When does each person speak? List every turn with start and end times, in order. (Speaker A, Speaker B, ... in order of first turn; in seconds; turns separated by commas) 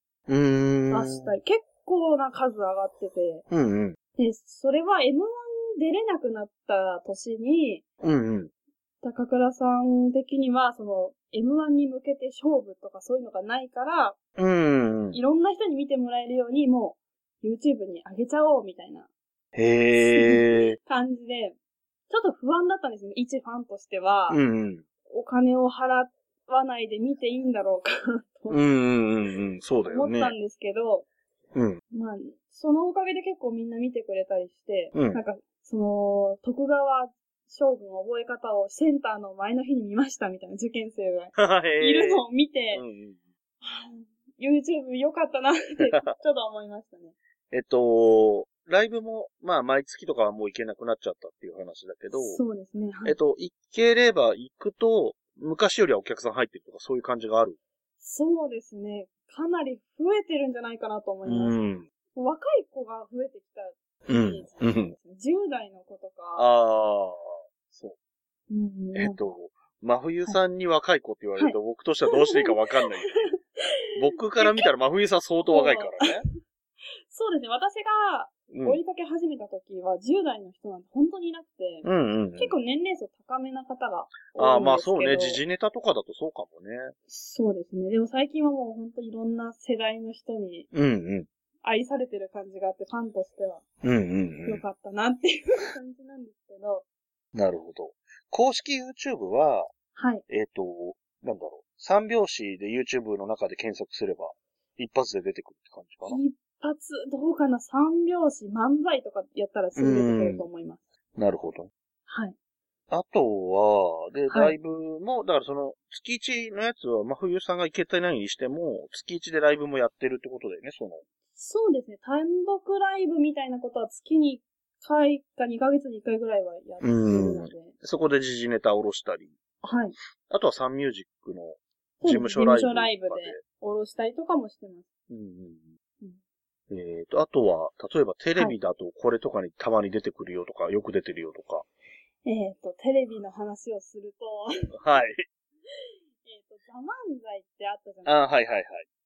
Speaker A: 0.3-1.3, Speaker B: 0.9-3.4, Speaker A: 3.5-4.0, Speaker B: 4.2-7.8, Speaker A: 8.0-8.5, Speaker B: 9.0-14.2, Speaker A: 14.4-15.2, Speaker B: 15.1-19.1, Speaker A: 19.5-20.8, Speaker B: 19.9-21.6, Speaker B: 22.1-24.4, Speaker A: 24.3-24.8, Speaker B: 25.1-28.6, Speaker A: 28.5-30.3, Speaker B: 29.9-31.1, Speaker A: 31.5-31.8, Speaker B: 31.9-42.8, Speaker A: 34.9-35.2, Speaker A: 41.4-43.2, Speaker B: 43.6-47.1, Speaker A: 45.8-46.1, Speaker A: 47.5-52.4, Speaker B: 52.1-53.1, Speaker A: 53.0-57.6, Speaker B: 58.0-61.6, Speaker A: 61.2-61.8, Speaker B: 62.1-66.5, Speaker A: 64.1-64.9, Speaker A: 66.4-67.9, Speaker B: 68.5-69.2, Speaker A: 68.9-73.3, Speaker B: 72.1-73.4, Speaker A: 73.9-76.2, Speaker B: 74.3-74.7, Speaker B: 75.5-76.1, Speaker B: 77.1-85.4, Speaker A: 78.5-78.8, Speaker A: 81.8-82.5, Speaker A: 84.3-86.9, Speaker B: 87.1-90.7, Speaker A: 90.7-91.3, Speaker B: 91.6-93.6, Speaker A: 93.8-94.6, Speaker B: 94.4-96.8, Speaker A: 97.3-99.7, Speaker B: 100.0-100.2, Speaker A: 100.3-106.2, Speaker B: 106.0-110.8, Speaker A: 109.8-110.4, Speaker A: 111.2-111.7, Speaker B: 112.1-112.3, Speaker A: 112.9-121.0, Speaker B: 121.3-127.7, Speaker A: 126.8-129.3, Speaker B: 129.6-129.9, Speaker A: 130.3-133.4, Speaker B: 132.0-134.8, Speaker A: 135.1-135.7, Speaker A: 136.7-141.6, Speaker B: 142.2-144.7, Speaker A: 144.7-145.2, Speaker B: 146.2-148.3, Speaker A: 148.1-148.8